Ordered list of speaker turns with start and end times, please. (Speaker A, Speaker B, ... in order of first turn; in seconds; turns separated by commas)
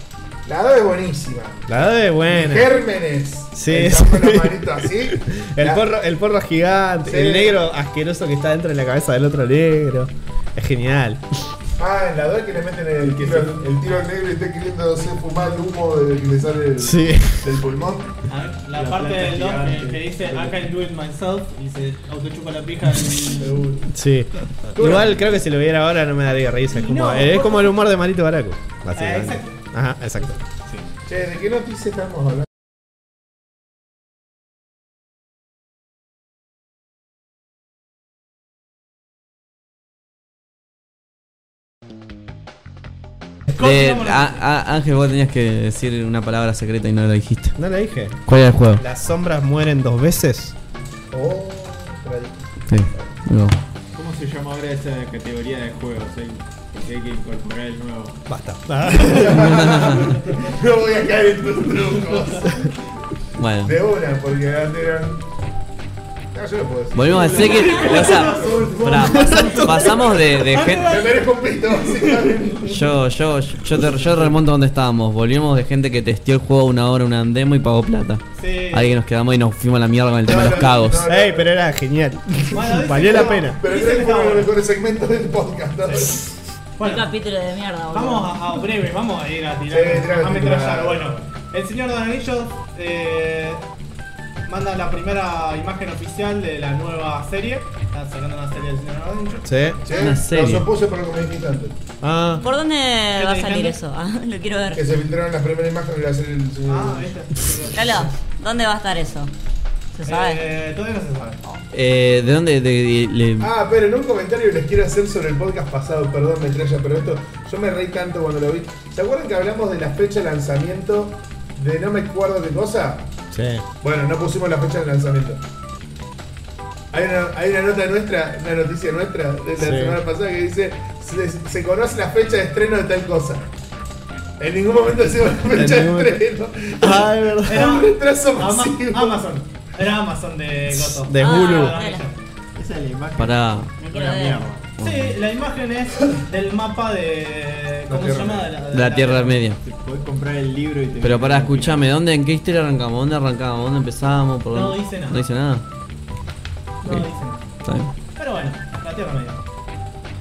Speaker A: 0.5-5.8, Speaker B: 1.7-2.8, Speaker B: 3.5-11.5, Speaker A: 7.0-7.6, Speaker A: 11.8-18.1, Speaker C: 13.0-13.6, Speaker B: 16.8-17.6, Speaker D: 18.3-23.6, Speaker C: 18.7-20.7, Speaker A: 23.4-23.8, Speaker B: 23.9-30.4, Speaker A: 24.8-25.4, Speaker D: 26.7-27.8, Speaker D: 29.0-29.5, Speaker A: 31.1-32.5, Speaker D: 43.5-44.4, Speaker E: 43.6-47.6, Speaker B: 47.6-50.5, Speaker E: 48.3-48.8, Speaker A: 51.1-53.1, Speaker E: 52.7-53.6, Speaker C: 54.0-58.2, Speaker B: 58.3-59.7, Speaker A: 58.9-62.7, Speaker E: 59.2-60.2, Speaker E: 63.4-63.8, Speaker A: 63.6-65.2, Speaker A: 66.3-69.0, Speaker E: 66.9-71.0, Speaker D: 67.2-72.5, Speaker B: 69.0-70.0, Speaker A: 70.7-72.9, Speaker E: 72.7-81.0, Speaker D: 78.4-78.9, Speaker A: 80.2-81.5, Speaker B: 80.6-83.6, Speaker D: 82.5-84.5, Speaker A: 83.0-86.3, Speaker D: 85.8-86.1, Speaker D: 86.8-87.1, Speaker F: 86.8-88.4, Speaker D: 87.9-93.6, Speaker A: 89.7-91.2, Speaker D: 94.5-99.5, Speaker B: 99.5-99.8, Speaker A: 99.8-101.8, Speaker E: 99.9-100.7, Speaker B: 102.0-102.4, Speaker F: 102.4-104.8, Speaker D: 103.1-103.8, Speaker A: 104.7-107.1, Speaker D: 106.7-108.1, Speaker F: 107.7-109.3, Speaker F: 109.9-110.4, Speaker D: 110.1-111.4, Speaker E: 111.7-113.5, Speaker A: 113.4-123.1, Speaker B: 123.3-123.6, Speaker A: 123.8-125.4, Speaker A: 126.9-133.5, Speaker B: 129.6-130.0, Speaker A: 134.4-139.3, Speaker B: 135.5-136.2, Speaker B: 136.8-137.8, Speaker D: 137.5-142.2, Speaker B: 140.7-141.8, Speaker F: 141.2-142.1, Speaker C: 142.6-144.6, Speaker E: 143.2-143.7, Speaker F: 143.8-144.5, Speaker E: 144.8-145.1, Speaker D: 144.8-149.4, Speaker A: 147.9-148.5, Speaker E: 148.7-149.6, Speaker C: 149.6-151.9, Speaker E: 151.0-155.6, Speaker D: 154.5-155.2, Speaker D: 156.8-157.5, Speaker E: 157.6-157.9, Speaker D: 158.2-159.5